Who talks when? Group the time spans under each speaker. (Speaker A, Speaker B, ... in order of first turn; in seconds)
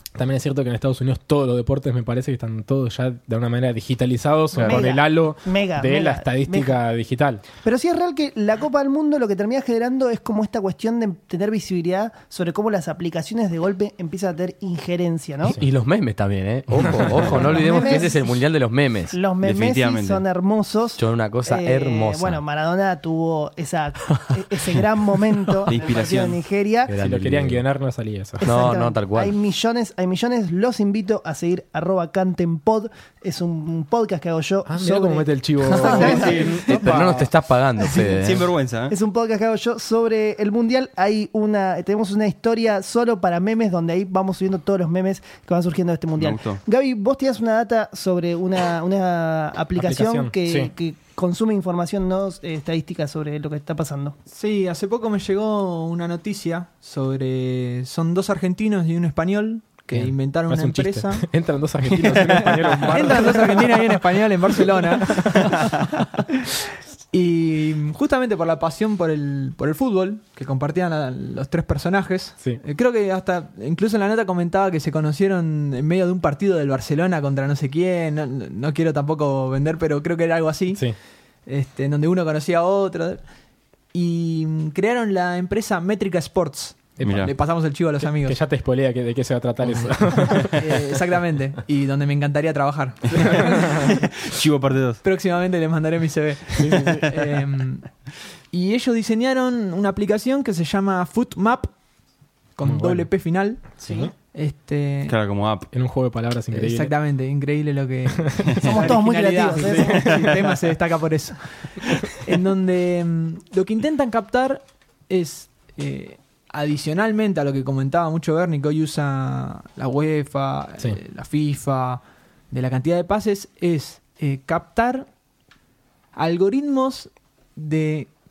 Speaker A: 0.1-7.4, 16.8-17.5, 27.0-28.7, 34.7-37.3, 49.8-50.7, 59.9-65.5, 87.0-87.3, 88.1-90.9, 96.6-97.1, 102.6-103.1, 103.8-104.1, 105.7-106.9, 108.2-108.6
Speaker B: 4.5-4.8, 15.6-19.1, 21.0-22.4, 26.9-27.6, 28.4-29.3, 36.0-38.5
Speaker C: 4.6-6.7, 7.6-15.6, 16.9-18.3, 19.1-26.9, 28.4-36.6, 37.8-54.1, 103.8-104.1, 108.6-110.1
Speaker D: 19.4-20.2, 25.6-26.4, 35.8-36.6, 38.2-38.9, 46.2-46.6, 87.0-87.3, 93.1-95.0, 105.1-105.7
Speaker E: 54.3-61.3, 62.0-65.7, 67.1-80.8, 81.5-83.2, 83.9-88.4, 90.5-93.9, 95.0-97.9, 98.5-101.7, 102.5-105.2, 106.5-125.1, 126.2-128.1